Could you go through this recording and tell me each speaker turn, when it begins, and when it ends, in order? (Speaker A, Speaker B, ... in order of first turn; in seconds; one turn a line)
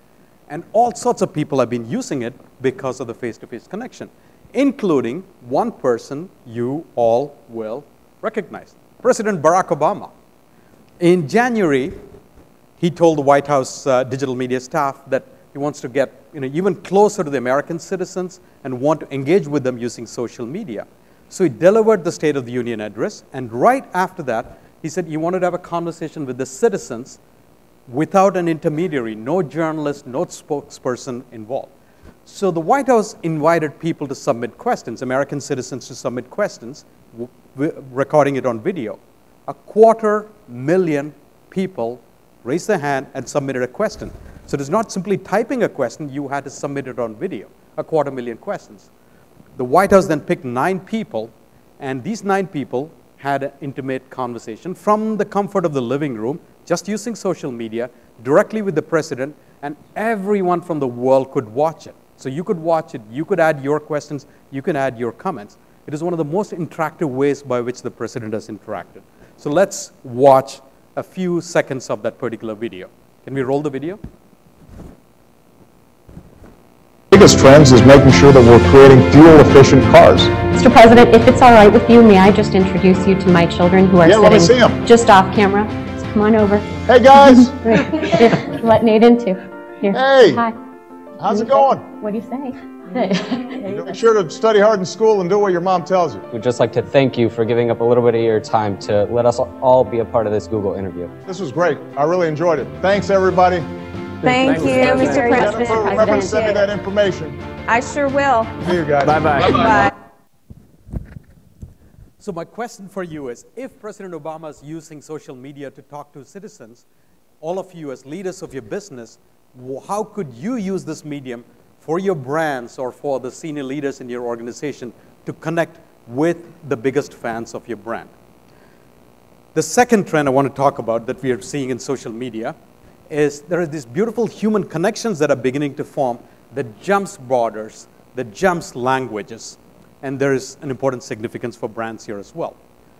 Speaker A: 0.5-10.1
Speaker A: 11.0-12.0
Speaker A: 12.8-27.2
Speaker A: 27.9-31.7
Speaker A: 32.2-48.9
Speaker A: 49.6-74.0
Speaker B: 77.1-80.3
Speaker C: 80.5-90.6
Speaker B: 84.0-84.8
Speaker B: 86.9-88.1
Speaker B: 89.9-90.4
Speaker B: 91.2-91.9
Speaker C: 91.2-94.0
Speaker B: 93.6-96.2
Speaker D: 96.3-101.1
Speaker B: 101.3-103.7
Speaker D: 104.2-105.5
Speaker E: 104.2-106.7
Speaker B: 104.4-107.4
Speaker C: 105.1-106.4
Speaker E: 107.7-108.6
Speaker B: 108.6-109.8
Speaker D: 109.0-109.6
Speaker E: 109.4-109.9
Speaker A: 112.2-116.8
Speaker A: 117.4-128.1
Speaker A: 129.6-132.6
Speaker A: 133.1-142.6